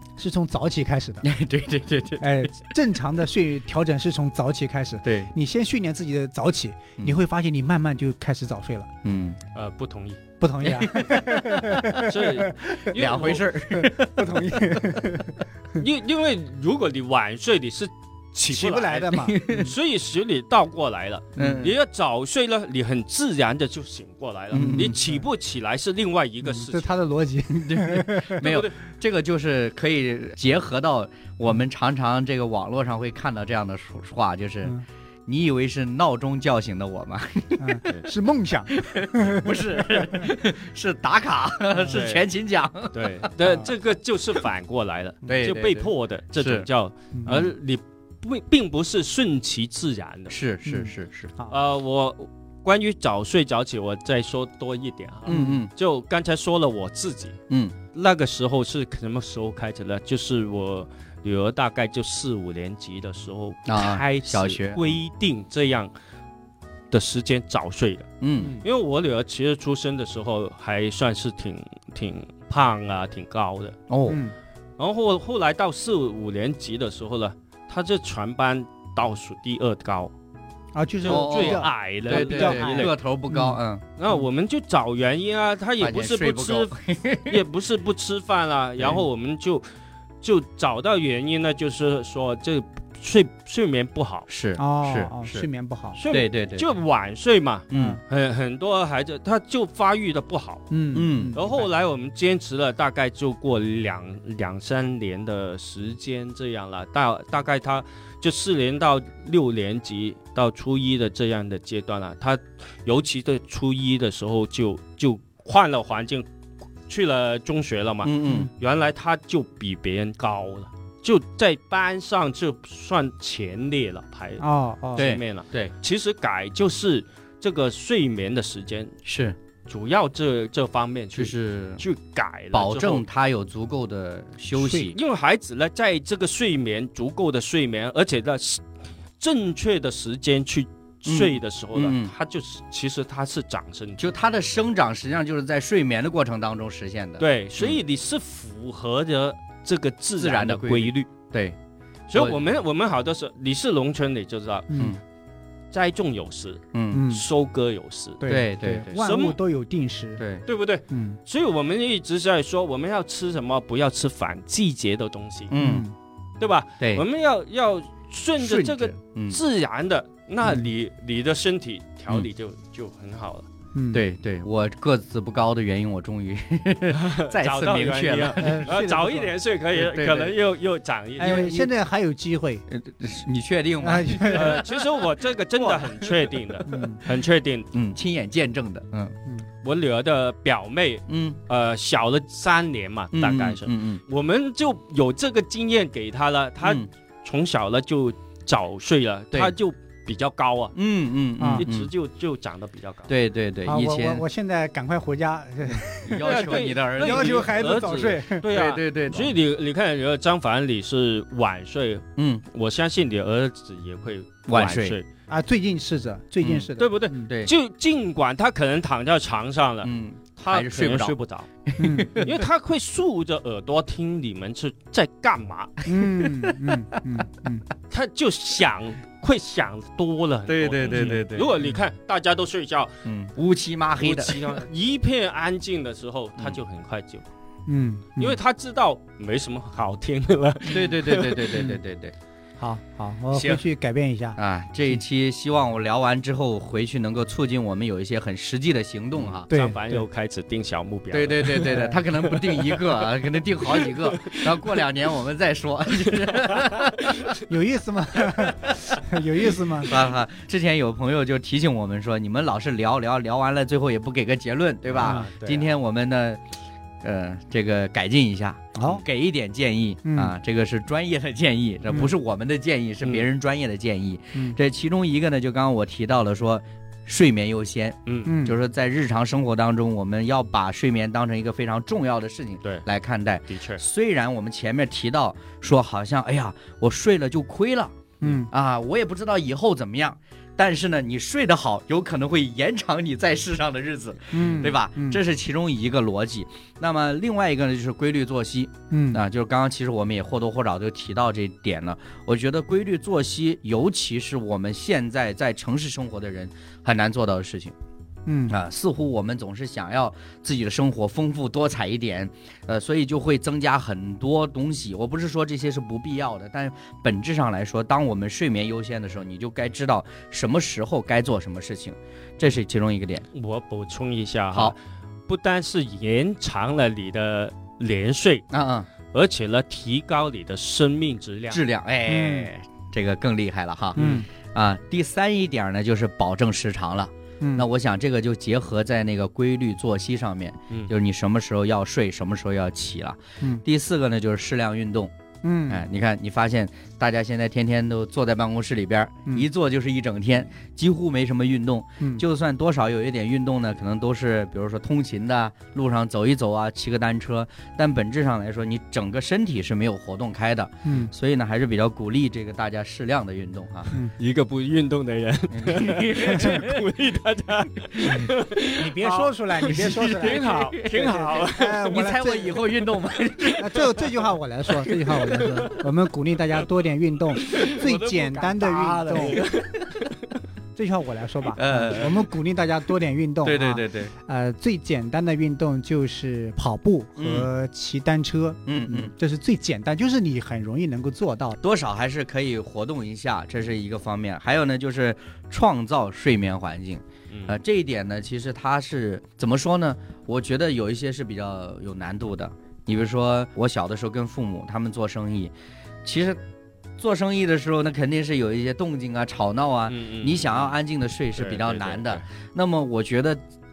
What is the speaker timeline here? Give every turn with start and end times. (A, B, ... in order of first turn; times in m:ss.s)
0:00.2-0:01.3 A
0:01.2-0:02.4 B
0:02.2-0:08.9 A
0:05.0-0:05.3 B
0:09.0-0:09.4 B
0:09.5-0:10.2 C
0:10.4-0:12.9 A
0:10.6-0:12.0 B
0:12.0-0:13.5 C
0:12.9-0:15.2 B
0:13.7-0:15.4 A
0:15.8-0:26.9 C
0:18.5-0:19.7 A
0:19.3-0:19.7 B
0:21.4-0:21.8 B
0:24.5-0:25.0 B
0:24.5-0:25.2 A
0:26.4-0:28.4 A
0:27.5-0:34.7 B
0:28.4-0:28.7 C
0:35.3-0:37.9 B
0:37.6-0:40.3 A
0:38.7-0:43.6 B
0:41.9-0:42.2 C
0:42.9-0:50.4 C
0:45.2-0:46.7 B
0:47.1-0:47.4 A
0:50.3-0:51.3 B
0:50.6-0:51.5 A
0:51.5-0:57.4 C
0:55.2-0:55.7 B
0:55.3-0:55.6 A
0:57.5-0:57.8 B
0:57.9-1:05.9 C
1:03.7-1:05.0 B
1:06.9-1:08.1 C
1:08.2-1:08.6 B
1:08.6-1:13.8 C
1:13.9-1:14.2 B
1:14.1-1:14.3 A
1:14.8-1:20.1 C
1:20.7-1:23.6 A
1:21.0-1:22.9 C
1:21.1-1:23.8 B
1:24.0-1:26.7 C
1:25.8-1:27.4 B
1:27.2-1:29.6 C
1:28.8-1:29.0 B
1:30.2-1:34.3 C
1:34.3-1:35.5 B
1:34.6-1:36.0 A
1:36.0-1:40.6 C
1:36.1-1:36.7 B
1:37.7-1:38.0 B
1:37.7-1:38.0 A
1:40.7-1:41.7 A
1:40.9-1:41.4 B
1:41.3-1:56.2 C
1:56.9-2:08.9 C
1:58.0-1:58.5 B
1:58.2-1:58.5 A
2:04.4-2:05.1 A
2:05.0-2:05.7 B
2:09.0-2:09.4 B
2:09.6-2:13.0 C
2:11.1-2:11.8 B
2:12.5-2:15.0 B
2:14.6-2:18.6 C
2:19.2-2:24.0 C
2:21.0-2:22.1 B
2:24.0-2:27.8 B
2:27.2-2:31.1 C
2:30.2-2:31.6 B
2:32.1-2:34.8 C
2:34.7-2:35.0 A
2:35.7-2:38.2 C
2:36.7-2:37.0 B
2:36.9-2:37.2 A
2:38.2-2:40.2 A
2:38.3-2:38.9 B
2:38.9-2:39.4 C
2:40.2-2:40.4 B
2:40.4-2:45.5 C
2:40.9-2:41.2 A
2:45.5-2:45.8 B
2:45.6-2:45.9 A
2:46.4-2:53.5 C
2:48.4-2:49.4 B
2:53.7-2:54.0 A
2:53.9-2:58.7 B
2:56.9-3:01.7 C
2:58.4-2:59.3 A
2:59.7-3:00.4 B
3:01.2-3:02.6 A
3:02.7-3:06.4 B
3:03.8-3:04.7 A
3:04.3-3:07.7 C
3:06.6-3:07.0 A
3:07.7-3:09.1 B
3:09.6-3:20.7 C
3:11.1-3:11.4 B
3:13.1-3:14.0 B
3:16.6-3:16.9 B
3:20.7-3:21.9 B
3:21.4-3:21.6 A
3:21.6-3:23.1 C
3:23.1-3:24.2 B
3:23.6-3:28.4 A
3:26.0-3:27.5 B
3:26.2-3:35.0 C
3:28.5-3:29.3 B
3:32.2-3:32.4 B
3:34.5-3:35.0 B
3:35.3-3:37.3 A
3:36.4-3:36.7 B
3:36.8-3:41.5 C
3:39.8-3:41.2 B
3:41.7-3:42.4 B
3:41.8-3:42.2 A
3:42.2-3:45.8 C
3:45.8-3:47.6 A
3:46.0-3:46.8 B
3:47.9-3:52.9 C
3:50.5-3:51.5 B
3:53.0-3:54.6 B
3:54.0-3:57.2 C
3:57.7-3:58.4 A
3:58.2-4:01.7 C
4:00.7-4:02.1 B
4:02.6-4:05.0 A
4:03.3-4:03.6 B
4:04.4-4:09.5 B
4:09.2-4:11.9 C
4:09.5-4:10.0 A
4:11.1-4:17.3 B
4:11.6-4:12.0 A
4:12.5-4:12.8 C
4:13.8-4:14.5 C
4:16.2-4:17.4 C
4:17.5-4:20.0 A
4:19.8-4:26.4 B
4:24.9-4:25.7 C
4:25.0-4:25.3 A
4:27.0-5:07.7 B
4:28.7-4:29.0 A
4:30.0-4:30.3 A
4:31.9-4:32.1 A
4:38.0-4:38.3 C
4:38.2-4:38.6 A
4:43.5-4:43.8 C
4:48.2-4:48.5 A
4:54.3-4:55.2 A
4:58.9-4:59.2 A
5:08.2-5:08.6 A
5:08.5-5:23.2 B
5:23.3-5:28.4 C
5:28.5-5:28.9 B
5:29.1-5:31.6 C
5:31.5-5:45.1 B
5:32.1-5:32.5 A
5:34.0-5:34.3 A
5:34.0-5:34.2 C
5:37.4-5:37.6 A
5:45.4-5:45.8 A
5:45.7-6:03.9 B
6:00.8-6:01.1 A
6:04.2-6:11.9 C
6:05.5-6:06.8 B
6:07.9-6:08.3 B
6:08.8-6:12.6 A
6:09.0-6:11.2 B
6:11.9-6:14.0 B
6:13.6-6:19.4 A
6:15.1-6:15.8 C
6:17.4-6:19.8 C
6:20.7-6:31.6 A
6:21.5-6:22.2 B
6:23.4-6:24.1 B
6:27.2-6:27.5 B
6:28.6-6:29.1 B
6:31.6-6:45.5 B
6:37.3-6:37.6 C
6:46.0-6:46.4 B
6:47.0-6:53.4 B
6:49.9-6:50.8 C
6:51.3-6:52.2 C